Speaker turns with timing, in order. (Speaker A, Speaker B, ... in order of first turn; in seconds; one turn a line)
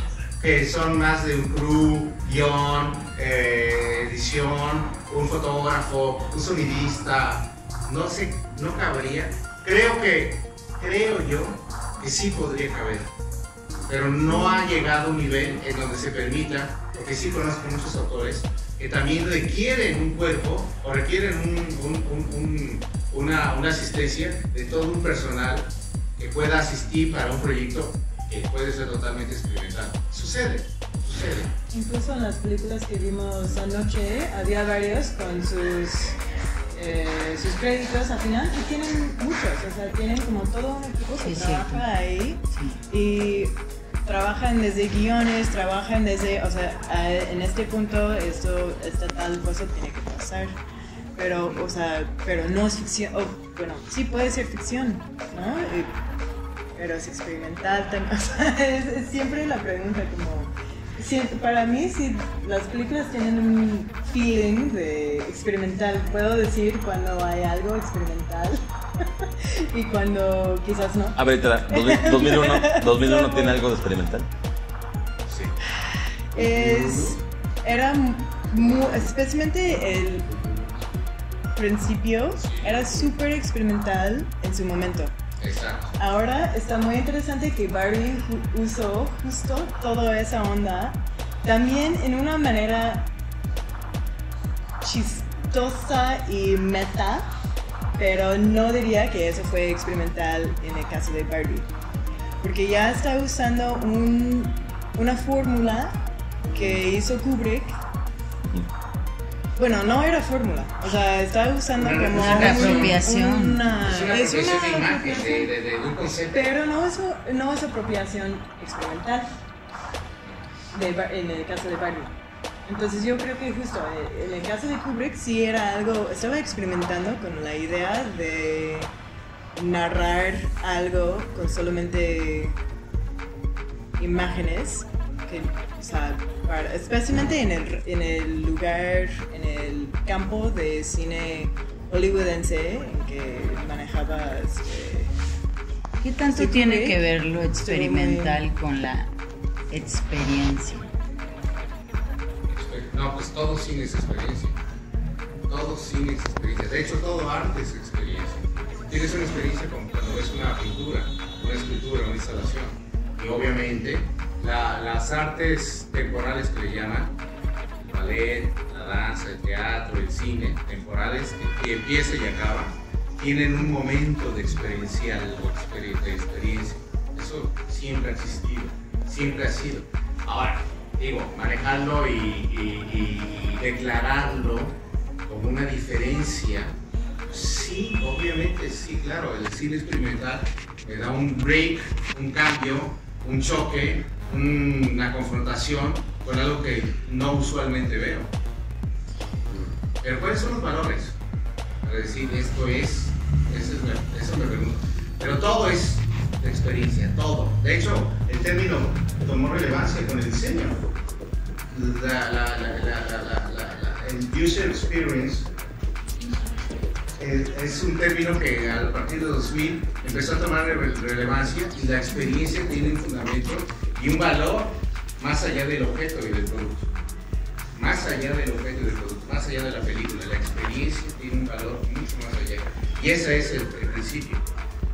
Speaker A: 0.4-13.1
Speaker A: 13.9-31.5
Speaker B: 31.7-36.2
Speaker B: 36.7-50.6
Speaker C: 41.2-41.9
Speaker C: 42.5-42.8
Speaker B: 51.2-55.9
Speaker B: 56.8-73.6
Speaker D: 71.2-74.3
Speaker A: 75.3-75.5
Speaker B: 75.8-80.3
Speaker B: 81.6-85.2
Speaker A: 82.4-83.0
Speaker A: 85.4-85.9
Speaker B: 86.0-93.1
Speaker B: 94.8-97.3
Speaker B: 98.0-101.7
Speaker B: 102.4-106.0
Speaker B: 106.5-107.8
Speaker B: 109.6-115.5
Speaker A: 111.8-113.0
Speaker C: 112.2-113.6
Speaker A: 113.8-116.5
Speaker B: 116.3-119.3
Speaker B: 120.7-122.1
Speaker B: 122.7-128.9
Speaker B: 129.6-132.6
Speaker B: 134.0-145.1
Speaker C: 146.0-149.1
Speaker B: 146.3-147.0
Speaker B: 147.6-148.4
Speaker C: 149.7-150.9
Speaker A: 152.5-154.6
Speaker A: 155.5-167.2
Speaker A: 167.8-186.8
Speaker A: 187.3-198.3
Speaker A: 200.0-201.1
Speaker A: 201.8-210.8
Speaker A: 211.7-215.5
Speaker A: 217.2-226.9
Speaker A: 227.7-234.4